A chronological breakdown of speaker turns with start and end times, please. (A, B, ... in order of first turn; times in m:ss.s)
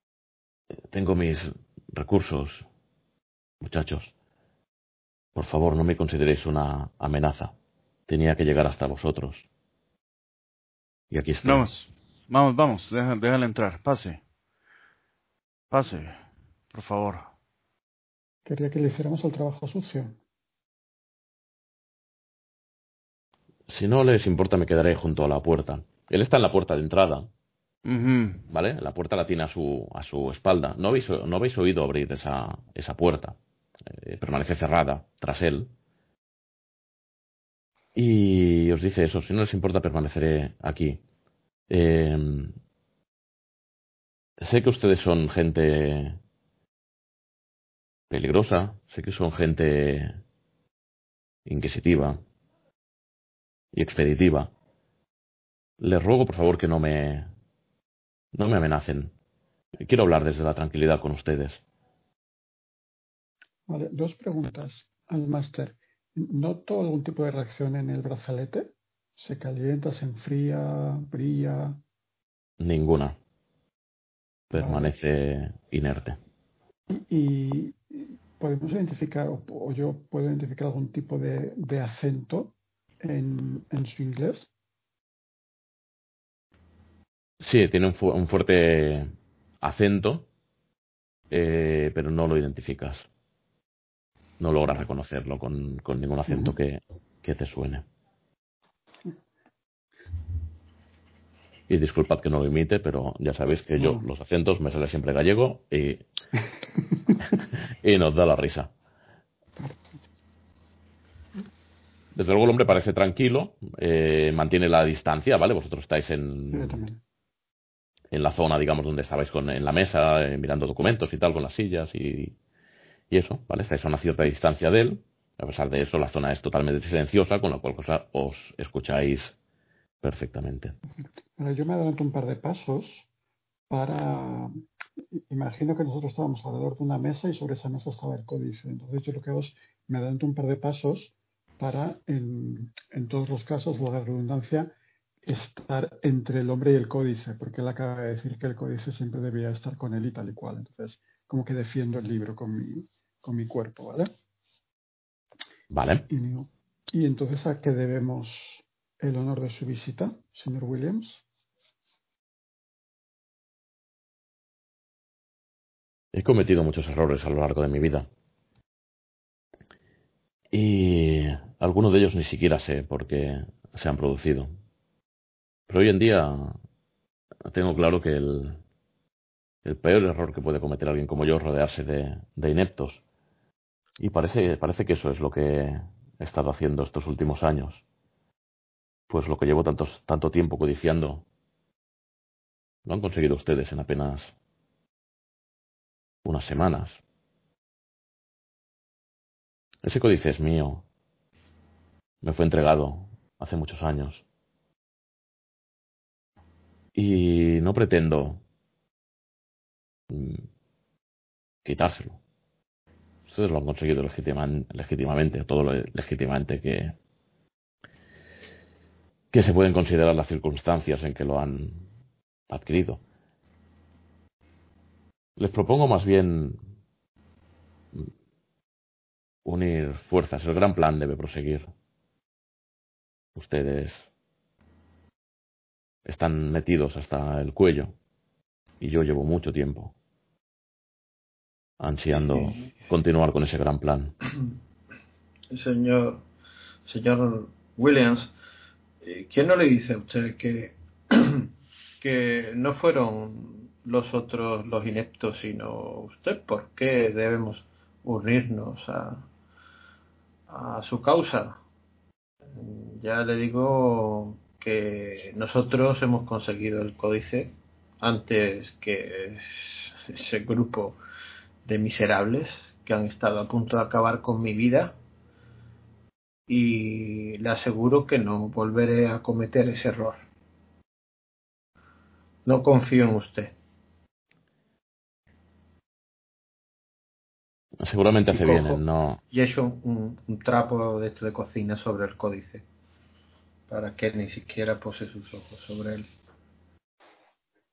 0:00.9-0:02.6 A
0:03.6-0:04.1 A
0:05.3-0:07.5 A
0:08.1-0:09.4 A
0:11.1-0:11.8 A
0:11.4-0:14.2 B
0:15.7-0:16.2 B
0:16.7-0:17.3 B
0:18.4-0:20.2 C
0:23.7-0:27.3 A
0:27.8-0:28.4 B
0:28.5-0:35.7 A
0:37.9-0:41.0 A
0:41.7-0:42.6 A
0:44.4-0:46.2 A
0:48.1-0:50.2 A
0:51.4-0:52.2 A
0:53.7-0:54.5 A
0:55.8-0:57.3 A
0:58.3-0:59.1 A
0:59.8-1:01.6 A
1:03.7-1:11.8 C
1:12.6-1:13.2 A
1:14.5-1:16.2 A
1:14.5-1:14.9 C
1:16.9-1:24.5 C
1:27.4-1:30.3 A
1:31.3-1:33.1 A
1:34.4-1:37.8 A
1:36.2-1:36.5 C
1:41.7-1:46.0 A
1:43.8-1:44.0 C
1:47.8-1:48.7 A
1:49.6-1:50.0 C
1:52.1-1:56.8 A
1:56.5-1:57.0 C
1:58.1-2:02.3 A
2:03.1-2:09.3 A
2:10.0-2:10.7 A
2:11.3-2:13.1 C
2:13.7-2:14.5 C
2:15.3-2:24.7 C
2:25.2-2:34.1 C
2:35.7-2:36.1 A
2:36.1-2:41.2 C
2:46.1-2:48.1 A
2:50.5-2:54.5 A
2:55.7-2:56.6 A
2:57.4-2:58.6 A
2:59.6-3:03.0 A
3:04.0-3:07.8 A
3:09.1-3:11.2 A
3:12.8-3:14.3 A
3:16.2-3:17.0 A
3:19.8-3:20.8 A
3:22.2-3:24.2 A
3:26.9-3:28.4 A
3:30.1-3:30.5 A
3:31.6-3:32.2 A
3:33.2-3:37.0 A
3:39.3-3:41.9 A
3:42.5-3:43.0 A
3:45.4-3:46.6 A
3:49.4-3:51.7 A
3:53.3-3:54.1 A
3:56.0-3:58.0 A
3:58.8-3:59.9 A
4:01.8-4:04.1 A
4:02.1-4:02.7 D
4:05.5-4:06.2 D
4:06.8-4:08.3 D
4:09.0-4:19.2 D
4:20.5-4:21.6 D
4:22.5-4:31.0 D
4:31.6-4:35.0 D
4:36.5-4:40.2 D
4:42.4-4:43.5 D
4:47.8-4:49.2 A
4:48.3-4:52.6 D
4:53.7-4:56.1 D